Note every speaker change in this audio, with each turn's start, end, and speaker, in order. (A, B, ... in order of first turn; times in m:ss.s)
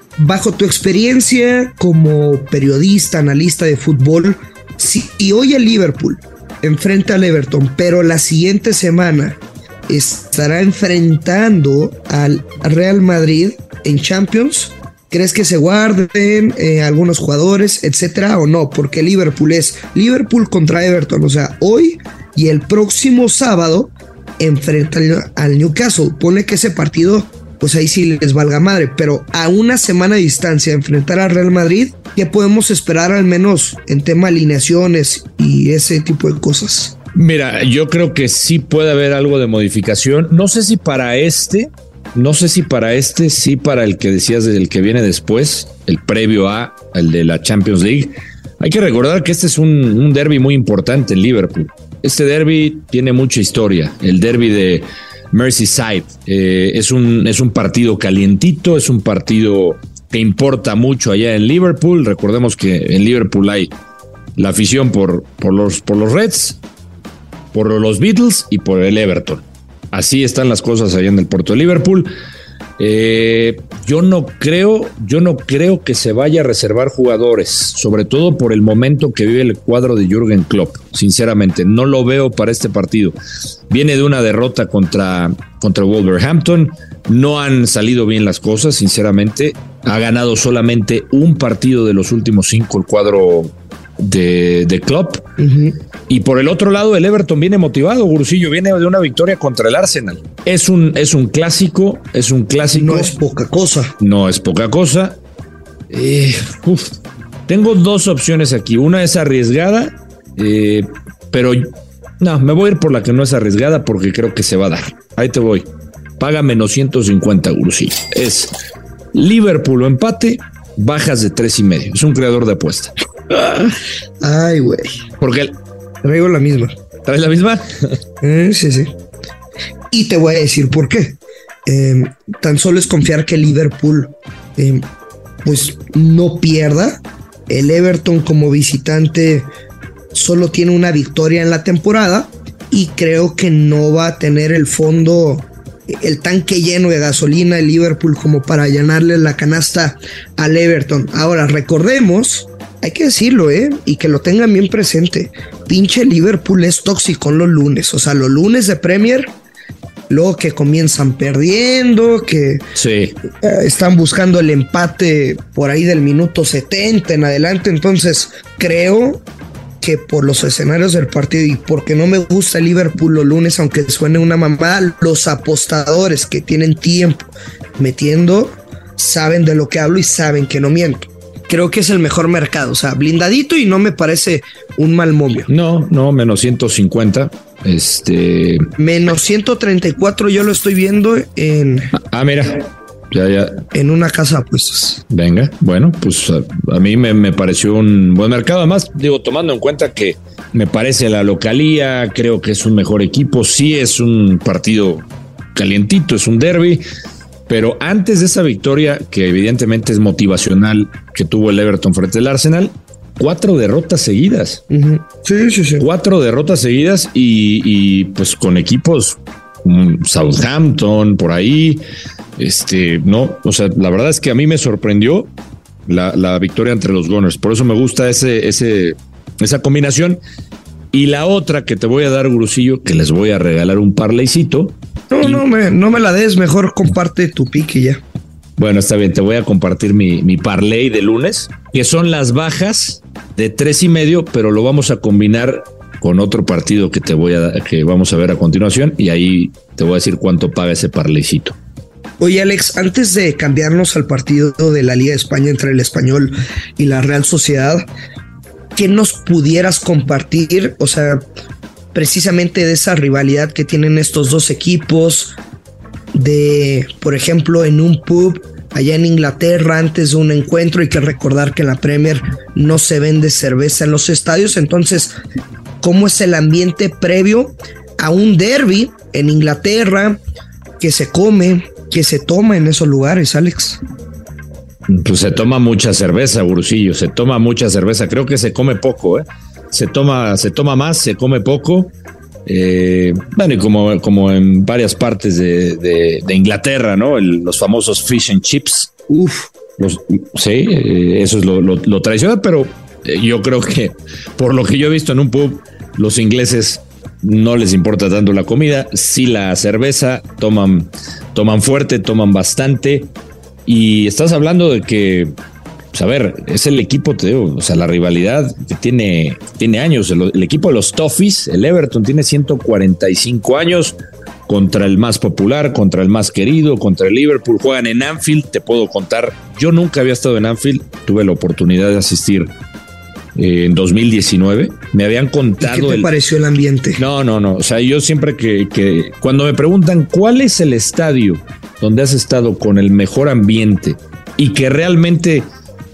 0:00.2-0:36.9 A
0:37.1-1:03.7 B
1:04.4-1:06.6 B
1:07.5-1:12.1 B
1:12.8-1:23.2 B
1:23.7-1:35.2 B
1:35.4-1:35.8 A
1:36.1-1:43.1 B
1:42.7-1:44.0 A
1:44.0-1:45.2 B
1:45.9-1:47.0 B
1:47.5-1:55.7 B
1:56.2-1:58.5 B
1:59.1-2:02.9 B
2:04.2-2:05.0 A
2:05.2-2:05.6 B
2:06.0-2:06.7 A
2:07.0-2:07.6 B
2:08.2-2:08.9 A
2:09.9-2:14.9 A
2:15.4-2:19.5 A
2:20.1-2:39.3 A
2:40.1-2:42.6 A
2:42.7-2:43.2 B
2:43.4-2:49.2 A
2:49.8-3:05.5 A
3:05.5-3:08.7 B
3:08.8-3:11.9 A
3:11.9-3:13.6 B
3:13.7-3:15.0 A
3:15.1-3:26.8 B
3:27.5-3:34.6 B
3:34.7-3:35.8 A
3:35.8-3:41.8 B
3:42.4-3:45.3 B
3:45.8-3:50.2 B
3:50.9-3:55.4 B
3:55.1-3:58.0 A
3:58.6-4:11.6 B
4:12.2-4:17.8 A
4:18.7-4:21.2 A
4:21.9-4:25.4 A
4:26.1-4:35.1 A
4:35.8-4:40.2 A
4:40.8-4:43.8 A
4:44.9-4:51.9 B
4:52.4-4:58.9 B
4:59.1-4:59.5 A
4:59.8-5:13.1 B
5:13.6-5:15.3 B
5:15.9-5:32.5 B
5:33.4-5:36.1 B
5:35.6-5:37.0 A
5:37.0-5:45.5 B